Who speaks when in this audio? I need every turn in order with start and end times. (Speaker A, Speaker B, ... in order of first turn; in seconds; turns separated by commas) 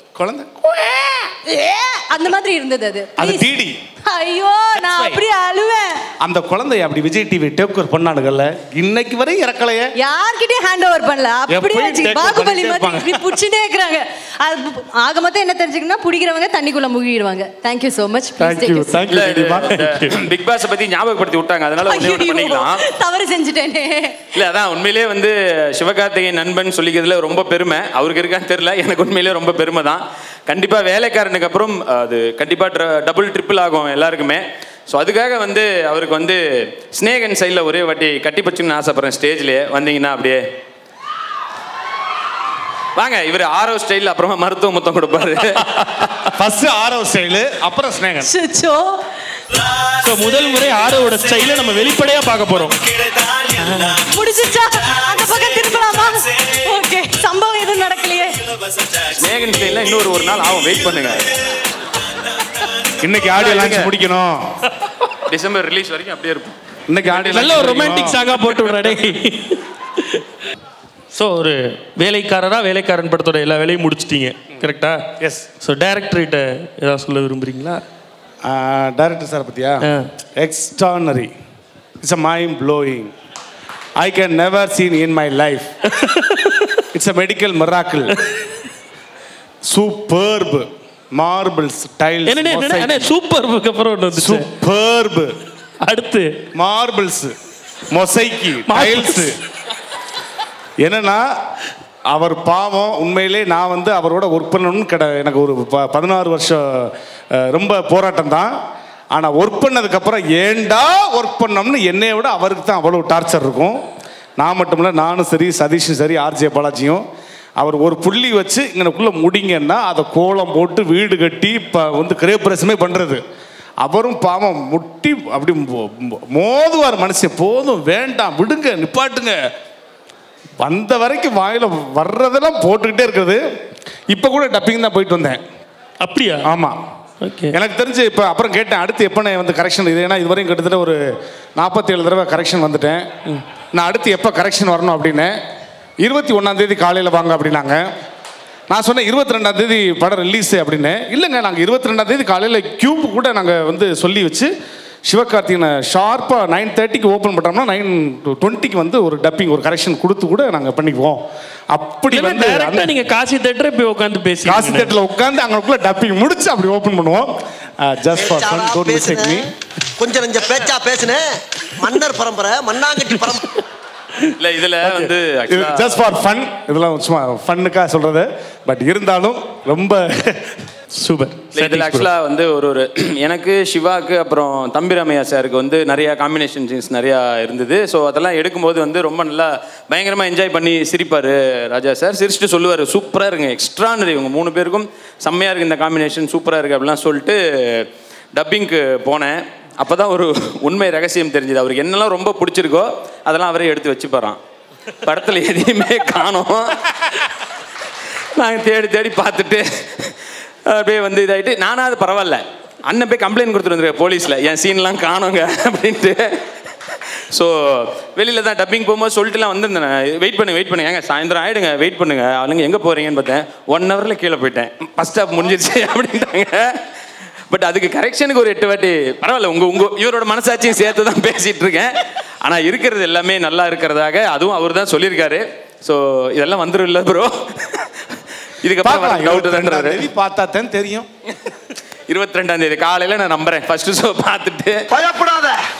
Speaker A: 0.2-1.9, Speaker B: 2.0-3.5, Speaker A: 3.2-3.8, Speaker B: 4.0-6.0, Speaker A: 4.8-5.2, Speaker A: 6.2-9.9, Speaker B: 10.0-19.1, Speaker A: 11.5-13.3, Speaker A: 18.4-20.1, Speaker C: 19.1-22.9, Speaker D: 19.2-20.0, Speaker B: 21.9-24.3, Speaker C: 24.3-40.4, Speaker C: 43.0-46.3, Speaker A: 46.3-48.3, Speaker B: 48.3-49.0, Speaker D: 49.9-52.8, Speaker D: 53.5-54.0, Speaker B: 54.0-58.4, Speaker C: 59.1-61.3, Speaker A: 63.0-64.5, Speaker C: 63.3-63.9, Speaker C: 65.3-66.5, Speaker A: 66.9-68.2, Speaker D: 67.1-70.2, Speaker D: 71.1-75.0, Speaker A: 75.2-75.5, Speaker D: 75.6-77.8, Speaker A: 78.4-81.3, Speaker A: 82.0-83.1, Speaker A: 84.0-85.7, Speaker D: 85.9-86.8, Speaker A: 86.9-88.2, Speaker A: 89.7-93.1, Speaker D: 92.3-94.5, Speaker A: 94.1-95.3, Speaker D: 95.8-96.3, Speaker A: 96.6-97.3, Speaker A: 97.9-99.4, Speaker D: 98.7-99.3, Speaker A: 100.8-101.3, Speaker A: 102.1-108.5, Speaker A: 109.1-113.8, Speaker A: 114.4-117.0, Speaker A: 117.6-123.2, Speaker A: 123.8-129.4, Speaker A: 130.6-133.4, Speaker A: 134.1-135.4, Speaker D: 136.0-136.5, Speaker A: 136.4-136.8, Speaker D: 137.2-137.5, Speaker A: 137.5-141.0, Speaker A: 141.6-143.0, Speaker A: 143.7-145.3, Speaker A: 146.0-147.9, Speaker A: 148.7-154.5, Speaker A: 155.1-161.2, Speaker A: 161.7-162.9, Speaker D: 162.1-164.9, Speaker A: 164.4-169.5, Speaker E: 168.1-169.4, Speaker E: 170.0-173.4, Speaker C: 174.4-176.0, Speaker A: 174.9-180.6, Speaker D: 180.9-182.1, Speaker C: 181.5-204.4, Speaker C: 205.0-207.3, Speaker C: 208.3-226.8, Speaker C: 227.5-238.1, Speaker C: 238.6-240.1, Speaker A: 238.8-241.1, Speaker C: 242.1-244.8, Speaker E: 244.9-245.6